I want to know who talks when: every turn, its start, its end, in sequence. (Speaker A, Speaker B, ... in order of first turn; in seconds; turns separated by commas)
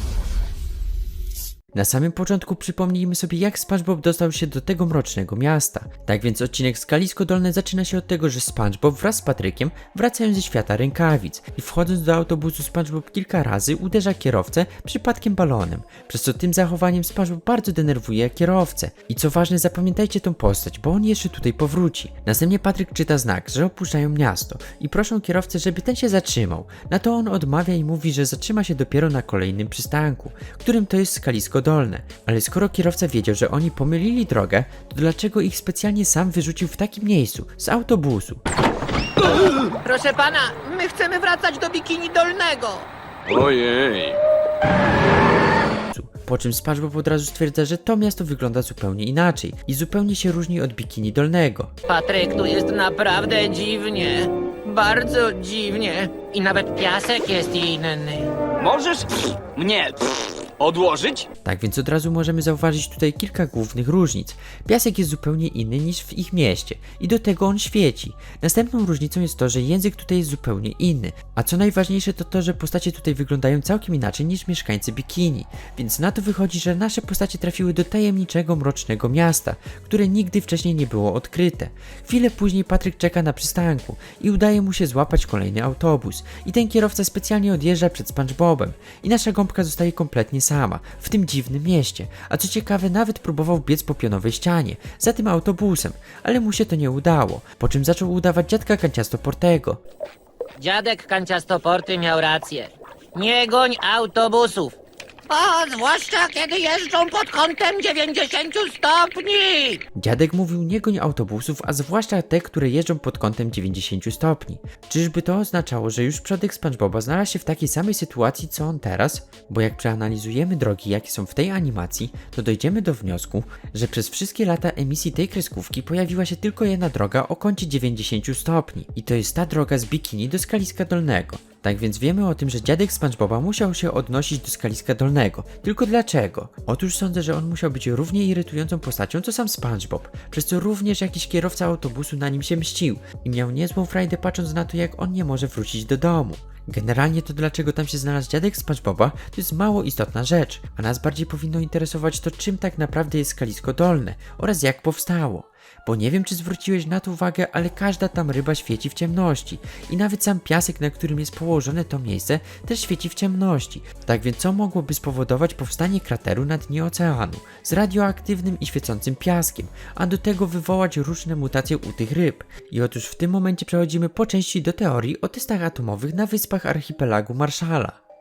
Speaker A: 1.7-38.4, Speaker B: 39.8-42.9, Speaker C: 43.3-44.1, Speaker A: 45.9-51.7, Speaker B: 51.9-58.3, Speaker C: 58.6-60.0, Speaker C: 60.6-61.3, Speaker A: 61.4-99.8, Speaker B: 100.6-104.8, Speaker B: 105.3-109.8, Speaker A: 109.9-177.9